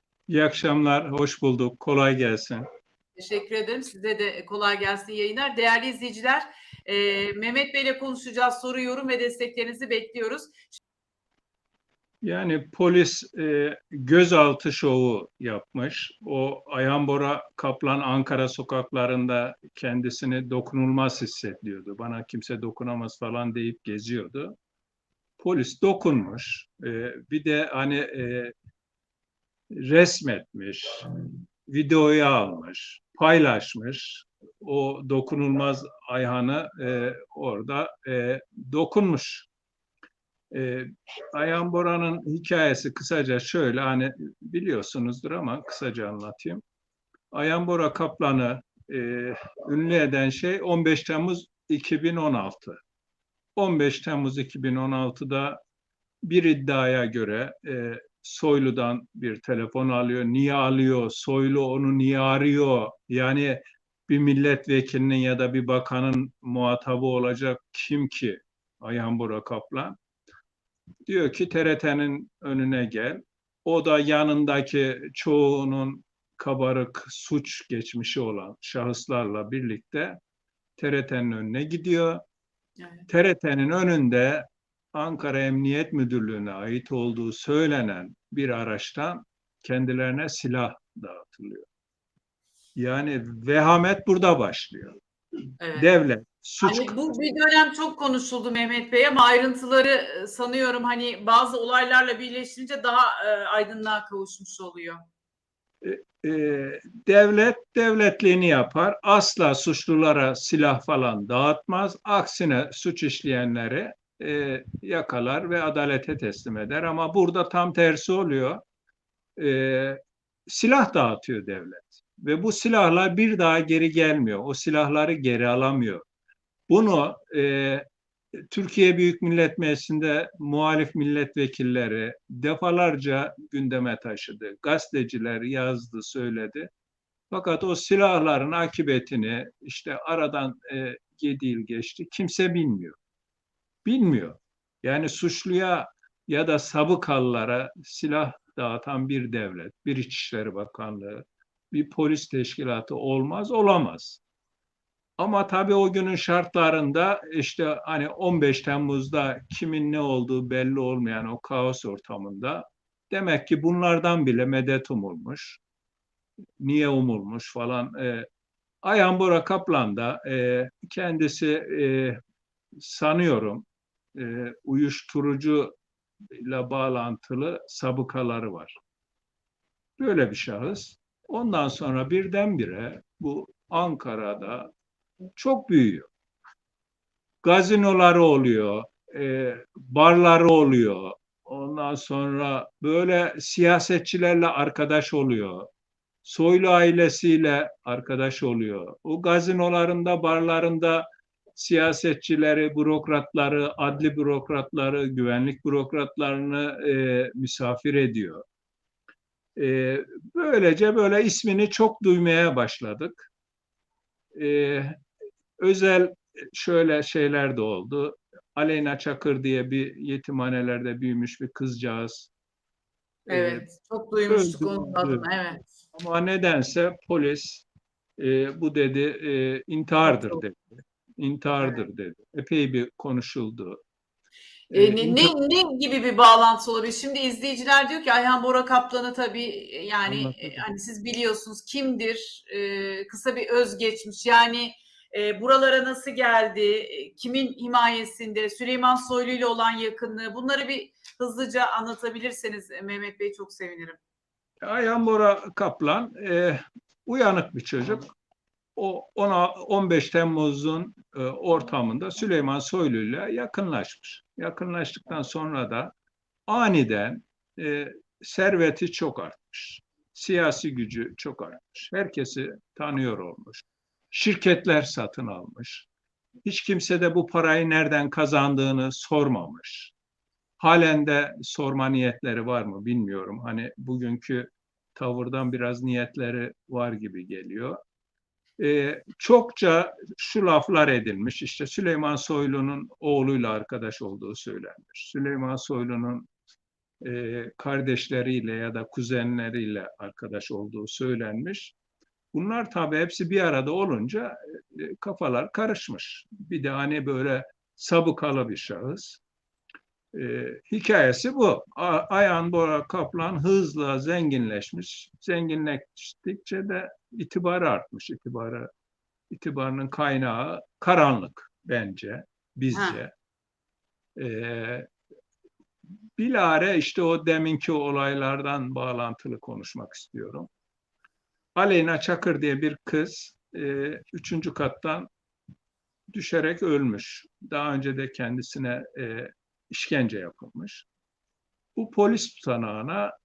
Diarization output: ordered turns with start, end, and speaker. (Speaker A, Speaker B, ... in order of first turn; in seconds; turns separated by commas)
Speaker A: 0.3-2.6, Speaker B: 3.1-10.8, Speaker A: 12.2-24.5, Speaker A: 25.4-28.5, Speaker A: 29.7-31.1, Speaker A: 31.7-39.5, Speaker A: 40.5-46.6, Speaker A: 47.3-52.8, Speaker A: 53.5-55.6, Speaker A: 56.2-70.0, Speaker A: 71.0-80.2, Speaker A: 80.8-82.2, Speaker B: 82.8-83.0, Speaker A: 83.1-91.7, Speaker A: 92.8-94.9, Speaker B: 95.6-95.9, Speaker A: 95.7-97.0, Speaker B: 96.6-105.0, Speaker A: 105.8-118.6, Speaker A: 119.4-126.0, Speaker A: 126.7-127.8, Speaker A: 128.5-136.7, Speaker A: 137.3-143.0, Speaker A: 143.8-154.2, Speaker A: 155.2-165.6, Speaker A: 166.6-168.3, Speaker A: 168.8-172.2, Speaker A: 172.8-175.7, Speaker A: 176.3-178.7, Speaker A: 180.0-184.7, Speaker A: 185.3-186.1, Speaker A: 187.4-195.7, Speaker A: 196.2-208.4, Speaker A: 209.6-213.3, Speaker A: 214.3-214.9, Speaker A: 215.6-222.3, Speaker A: 223.3-223.7, Speaker B: 223.3-225.7, Speaker A: 224.3-225.3, Speaker A: 225.9-227.7, Speaker A: 228.2-233.8, Speaker B: 230.1-230.4, Speaker A: 234.7-235.3, Speaker B: 234.7-254.0, Speaker A: 240.1-240.7, Speaker A: 254.6-258.1, Speaker A: 258.8-265.9, Speaker A: 266.5-275.9, Speaker A: 276.4-279.9, Speaker A: 280.6-287.8, Speaker A: 288.6-296.3, Speaker A: 297.0-301.7, Speaker A: 302.3-309.2, Speaker A: 310.1-318.7, Speaker A: 319.3-323.1, Speaker B: 322.7-323.0, Speaker A: 324.1-324.9, Speaker A: 326.2-330.5, Speaker A: 331.6-335.1, Speaker A: 336.1-340.9, Speaker A: 341.8-343.1